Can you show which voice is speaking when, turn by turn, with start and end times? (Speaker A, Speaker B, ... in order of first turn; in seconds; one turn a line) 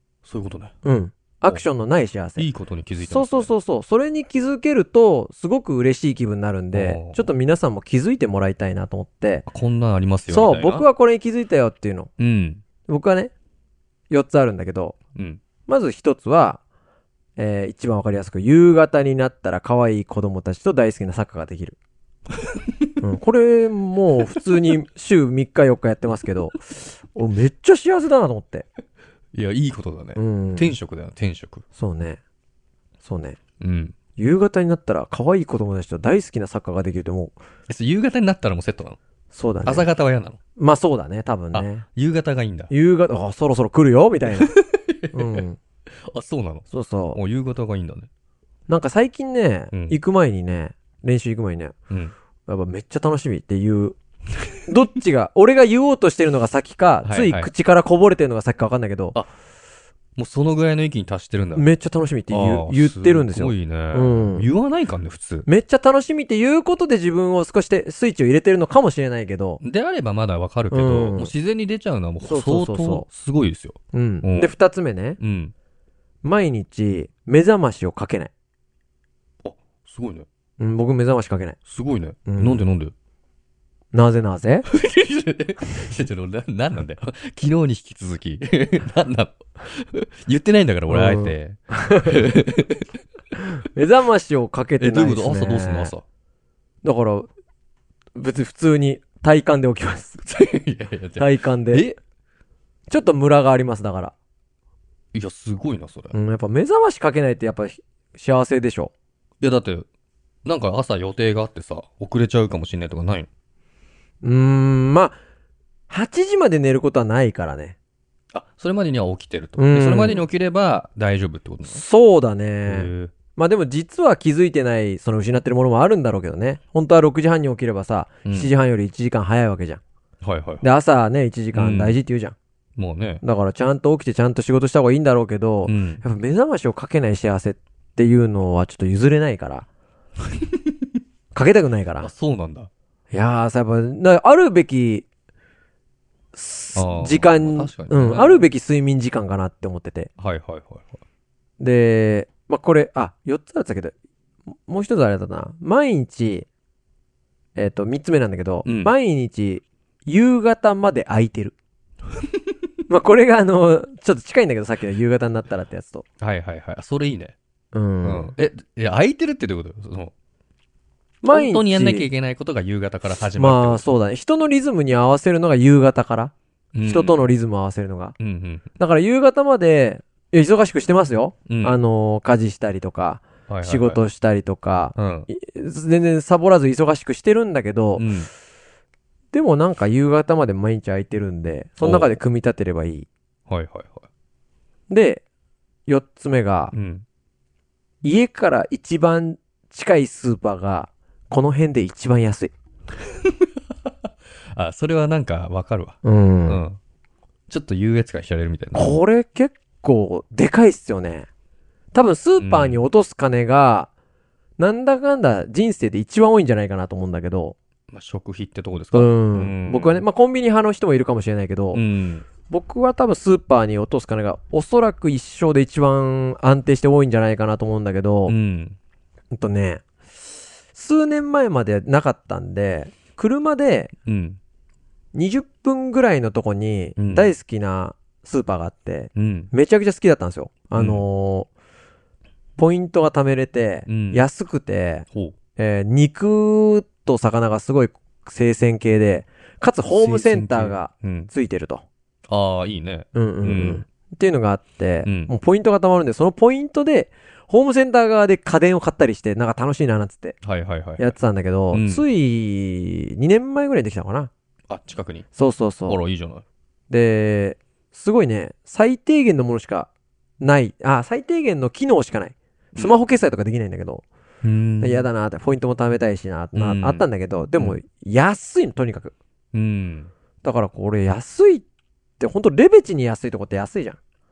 Speaker A: 0.2-0.7
Speaker B: 0.8-2.5
Speaker A: 2.4-3.5
Speaker B: 3.0-9.4
Speaker A: 6.7-7.3
Speaker A: 9.5-10.8
Speaker B: 10.3-12.1
Speaker A: 12.2-12.6
Speaker B: 12.9-13.3
Speaker B: 14.1-15.0
Speaker A: 15.2-15.4
Speaker B: 15.7-16.6
Speaker B: 17.4-21.8
Speaker B: 23.0-28.6
Speaker A: 29.3-31.6
Speaker B: 30.1-30.8
Speaker B: 31.7-32.2
Speaker B: 33.0-33.4
Speaker A: 33.6-34.0
Speaker B: 34.2-37.4
Speaker A: 37.7-39.0
Speaker B: 39.3-39.9
Speaker A: 39.6-40.4
Speaker B: 40.6-41.9
Speaker A: 41.5-42.7
Speaker B: 42.7-44.5
Speaker A: 44.4-45.4
Speaker B: 45.1-45.6
Speaker A: 46.1-48.1
Speaker B: 46.7-47.2
Speaker B: 48.7-51.7
Speaker A: 49.7-50.0
Speaker A: 51.9-52.1
Speaker B: 52.5-54.0
Speaker B: 54.7-59.2
Speaker A: 57.0-57.5
Speaker A: 60.1-61.7
Speaker B: 61.5-64.5
Speaker A: 62.3-65.5
Speaker B: 65.5-69.6
Speaker A: 69.6-74.5
Speaker B: 70.7-71.3
Speaker B: 72.2-73.1
Speaker B: 73.9-75.2
Speaker A: 75.2-75.5
Speaker B: 76.2-78.3
Speaker A: 79.4-80.3
Speaker B: 80.6-81.6
Speaker A: 81.6-82.9
Speaker B: 82.3-82.6
Speaker B: 83.9-84.7
Speaker A: 84.7-92.8
Speaker B: 90.9-92.2
Speaker B: 93.6-95.9
Speaker A: 94.8-96.0
Speaker B: 96.8-97.3
Speaker B: 98.1-100.2
Speaker A: 100.2-102.0
Speaker B: 101.2-101.8
Speaker B: 102.9-104.1
Speaker A: 105.1-106.2
Speaker B: 106.1-108.9
Speaker A: 109.4-109.9
Speaker A: 110.4-113.3
Speaker B: 114.2-115.2
Speaker B: 115.9-117.8
Speaker A: 118.3-121.8
Speaker B: 119.6-120.2
Speaker B: 121.6-129.8
Speaker A: 122.6-123.1
Speaker A: 128.2-128.5
Speaker A: 130.2-130.7
Speaker B: 130.6-132.3
Speaker A: 131.5-132.0
Speaker A: 132.8-133.2
Speaker B: 133.2-139.7
Speaker A: 135.6-136.0
Speaker A: 140.4-140.7
Speaker B: 141.3-142.1
Speaker A: 142.0-142.7
Speaker B: 143.1-145.1
Speaker B: 146.3-150.1
Speaker A: 146.7-148.5
Speaker A: 150.2-150.9
Speaker B: 151.6-153.9
Speaker B: 154.7-156.5
Speaker B: 157.6-161.6
Speaker A: 158.6-158.9
Speaker B: 162.9-166.1
Speaker A: 166.2-167.3
Speaker B: 167.7-168.3
Speaker A: 168.0-170.1
Speaker B: 171.2-172.1
Speaker A: 171.3-173.9
Speaker B: 173.3-178.2
Speaker A: 176.7-177.2
Speaker A: 178.2-178.7
Speaker B: 178.8-188.1
Speaker A: 181.5-181.8
Speaker A: 183.5-184.0
Speaker A: 184.9-185.3
Speaker A: 187.9-188.3
Speaker B: 189.3-193.1
Speaker A: 191.8-192.1
Speaker A: 193.5-194.1
Speaker B: 194.9-195.2
Speaker B: 195.9-196.7
Speaker A: 196.7-197.0
Speaker B: 198.0-202.5
Speaker A: 203.2-203.9
Speaker A: 204.5-206.8
Speaker B: 206.0-206.6
Speaker A: 207.5-209.0
Speaker B: 208.7-211.3
Speaker B: 211.9-213.9
Speaker A: 212.4-212.8
Speaker B: 214.6-217.6
Speaker A: 217.9-220.0
Speaker B: 218.9-221.8
Speaker A: 221.7-222.3
Speaker B: 222.5-228.3
Speaker A: 228.3-228.8
Speaker B: 229.3-229.8
Speaker B: 230.7-233.9
Speaker A: 234.1-234.4
Speaker B: 235.1-241.5
Speaker A: 237.0-237.3
Speaker A: 239.1-239.5
Speaker A: 240.7-241.0
Speaker B: 242.6-251.8
Speaker A: 243.8-244.2
Speaker A: 249.9-251.3
Speaker A: 252.3-253.8
Speaker B: 253.1-260.4
Speaker A: 255.0-255.3
Speaker A: 260.4-261.1
Speaker B: 261.0-264.3
Speaker A: 261.7-262.0
Speaker A: 264.7-265.3
Speaker B: 265.3-266.0
Speaker A: 265.9-266.4
Speaker B: 266.9-269.9
Speaker B: 270.4-274.0
Speaker A: 274.4-275.1
Speaker B: 274.8-279.1
Speaker A: 276.5-277.1
Speaker A: 279.5-280.1
Speaker B: 280.4-281.6
Speaker B: 282.2-284.0